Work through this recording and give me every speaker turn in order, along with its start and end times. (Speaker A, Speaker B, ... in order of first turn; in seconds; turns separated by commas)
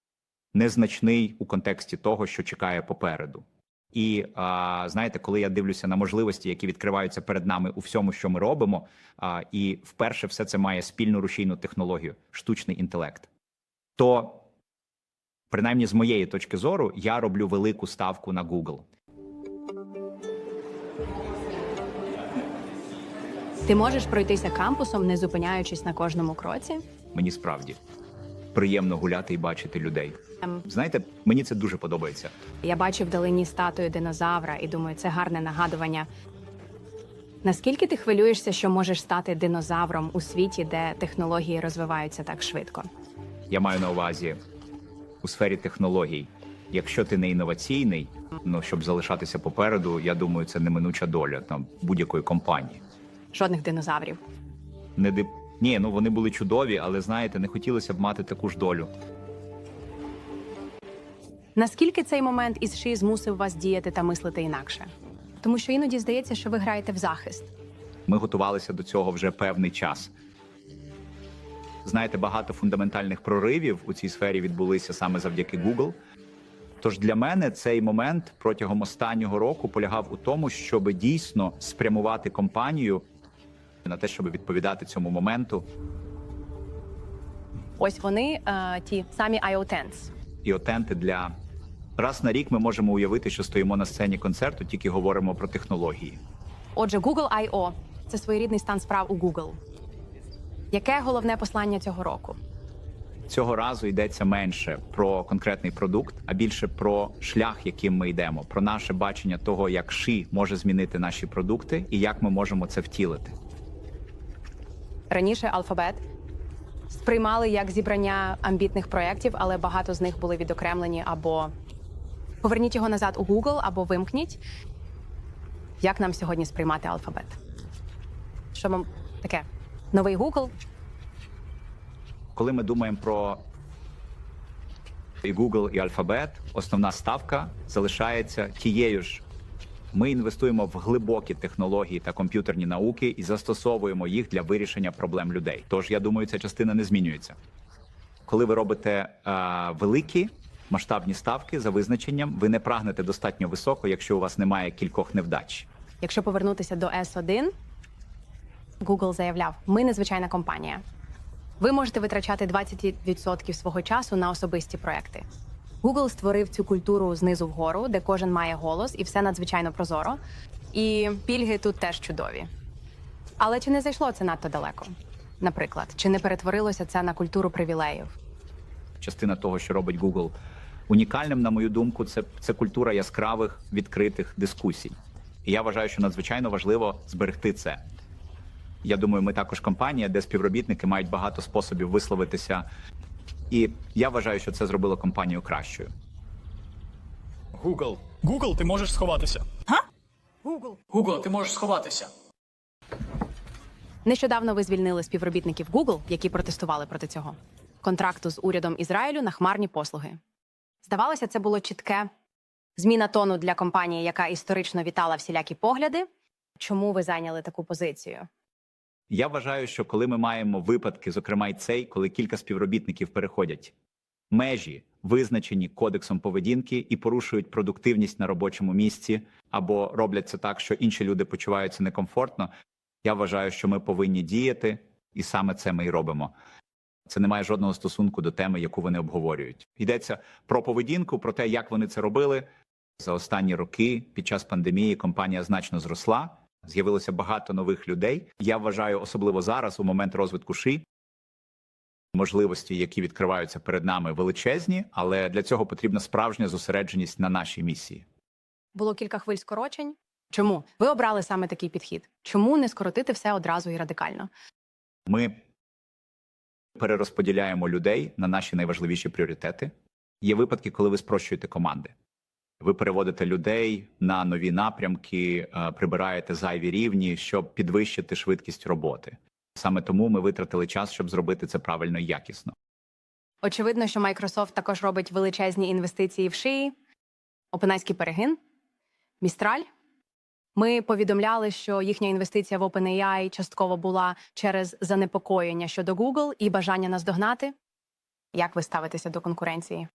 Speaker A: 0.5-13.3, Speaker A: 14.0-14.4, Speaker A: 15.5-18.9, Speaker B: 23.7-26.8, Speaker A: 27.1-27.8, Speaker A: 28.5-32.4, Speaker B: 32.6-36.1, Speaker B: 37.4-42.9, Speaker A: 43.5-44.4, Speaker A: 45.2-52.8, Speaker B: 53.3-54.2, Speaker A: 55.0-58.9, Speaker B: 61.6-67.5, Speaker A: 68.1-70.1, Speaker A: 71.8-76.0, Speaker A: 76.8-83.0, Speaker A: 83.8-85.7, Speaker B: 87.8-90.1, Speaker A: 90.4-91.3, Speaker A: 92.0-96.2, Speaker B: 96.8-99.6, Speaker B: 100.7-102.4, Speaker A: 103.3-113.3, Speaker B: 115.1-116.0, Speaker B: 116.9-121.5, Speaker B: 122.4-124.4, Speaker B: 125.8-127.4, Speaker B: 128.5-130.5, Speaker A: 132.3-133.5, Speaker A: 135.2-139.2, Speaker A: 139.9-147.4, Speaker A: 148.3-155.7, Speaker B: 156.0-157.5, Speaker B: 158.8-160.8, Speaker B: 161.6-165.3, Speaker B: 165.8-170.2, Speaker B: 170.7-172.5, Speaker B: 173.4-178.2, Speaker A: 179.0-180.3, Speaker A: 180.9-187.8, Speaker A: 188.8-192.7, Speaker A: 193.5-195.9, Speaker C: 197.6-199.8, Speaker B: 200.5-200.8, Speaker C: 200.9-202.1, Speaker B: 204.1-210.2, Speaker B: 210.8-212.1, Speaker B: 212.8-216.1, Speaker B: 216.6-218.3, Speaker A: 219.1-223.7, Speaker A: 224.3-232.5, Speaker A: 233.0-236.3, Speaker A: 237.1-242.5, Speaker A: 243.0-250.8, Speaker A: 252.1-258.1, Speaker B: 258.8-264.3, Speaker A: 265.1-265.4, Speaker A: 266.8-271.9, Speaker A: 272.6-282.5, Speaker B: 283.4-286.8, Speaker B: 287.5-288.4, Speaker B: 289.2-289.7, Speaker B: 290.6-297.5, Speaker B: 298.3-299.9